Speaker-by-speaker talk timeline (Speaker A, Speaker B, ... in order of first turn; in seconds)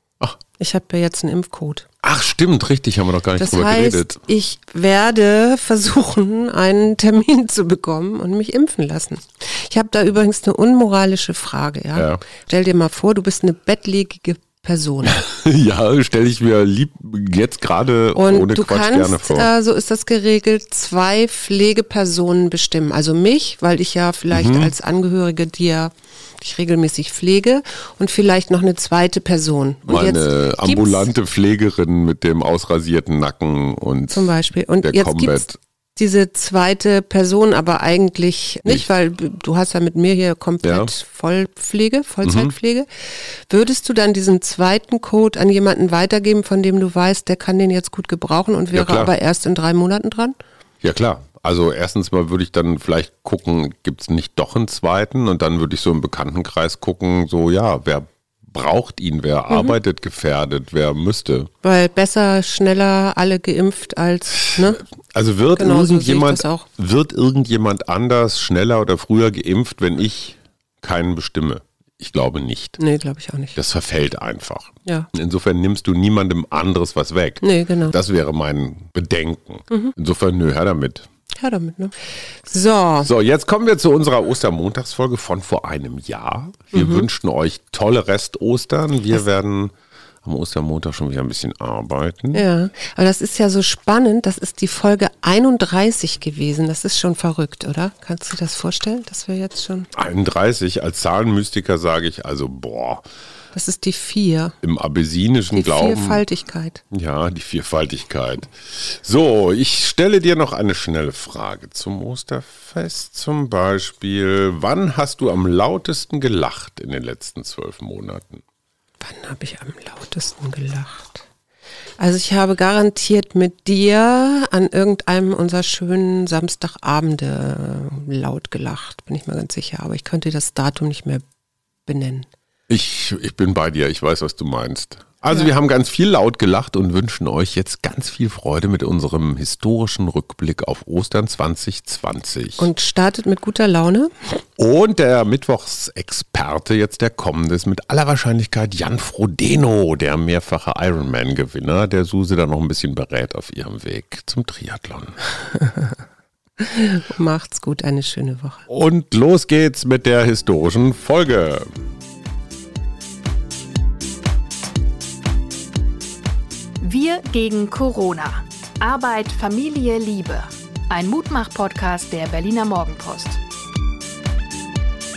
Speaker A: 0.6-1.9, 3.4-15.2, 18.1-31.1, 34.1-50.4, 59.5-59.8, 61.6-64.8, 65.5-66.7, 72.8-73.6, 77.4-77.9, 81.4-83.1, 86.7-87.1, 92.3-99.9, 103.5-104.5, 105.5-106.8, 119.0-121.3, 122.0-131.2, 131.9-132.3, 142.6-144.4, 155.5-156.0, 156.6-158.7
Speaker B: 2.0-4.2, 11.9-12.2, 15.0-19.5, 24.3-24.8, 29.9-35.6, 40.6-40.9, 42.2-42.5, 48.7-49.1, 50.8-61.5, 64.5-72.8, 73.6-81.1, 83.0-89.7, 90.2-92.5, 99.9-103.0, 104.6-106.2, 106.9-118.4, 132.7-142.7, 144.6-155.2, 158.7-161.7
Speaker C: 166.8-173.4